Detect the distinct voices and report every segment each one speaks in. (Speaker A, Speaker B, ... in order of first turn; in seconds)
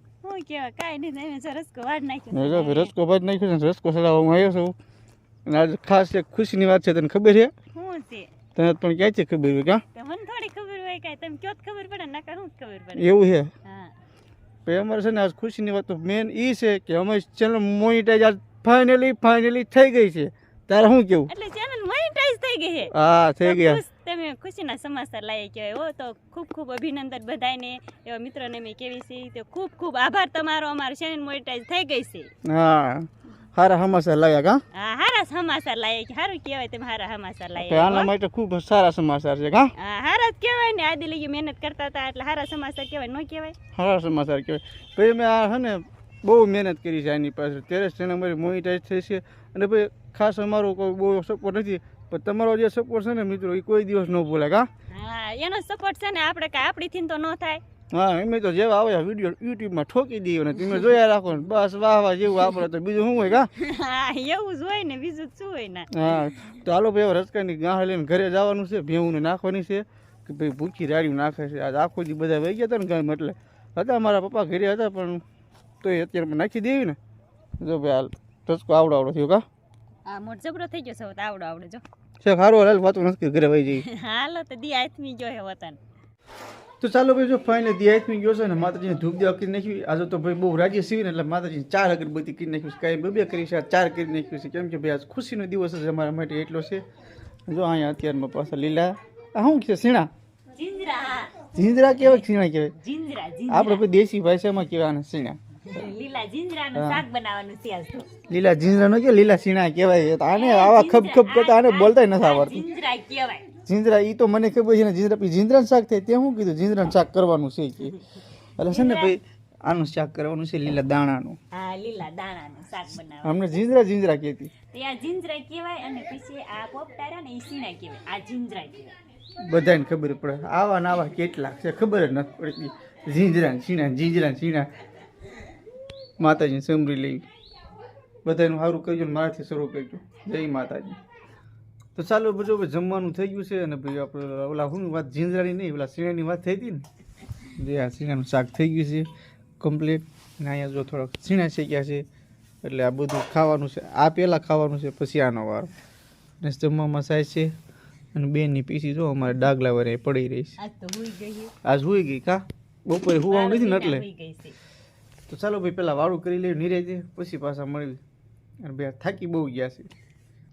Speaker A: 0.2-2.9, 7.7-8.3, 9.9-13.9, 21.3-32.3, 34.7-38.1, 39.8-43.5, 54.9-57.6, 63.5-66.1, 80.0-81.8, 83.7-85.8, 100.5-101.5, 102.0-102.2, 102.8-103.8, 105.6-108.1, 110.3-113.5, 118.6-119.2, 121.5-123.4, 124.7-128.9, 160.6-161.5, 163.3-164.6
Speaker B: 2.3-4.8, 5.5-7.5, 8.5-9.8, 12.9-13.5, 14.7-21.3, 22.9-23.8, 32.4-34.6, 37.6-39.7, 43.7-54.7, 57.9-63.5, 65.9-75.2, 75.8-77.0, 77.6-79.4, 82.2-83.8, 86.8-96.8, 97.5-100.1, 101.5-102.7, 103.5-105.4, 106.7-107.0, 108.3-112.7, 113.6-118.0, 118.6-121.4, 123.2-124.5, 129.4-134.7, 136.2-137.2, 138.2-141.0, 141.9-146.8, 147.6-149.1, 149.6-152.0, 152.6-155.7, 156.4-157.5, 158.1-160.6, 161.6-164.1, 165.3-168.0, 168.6-169.9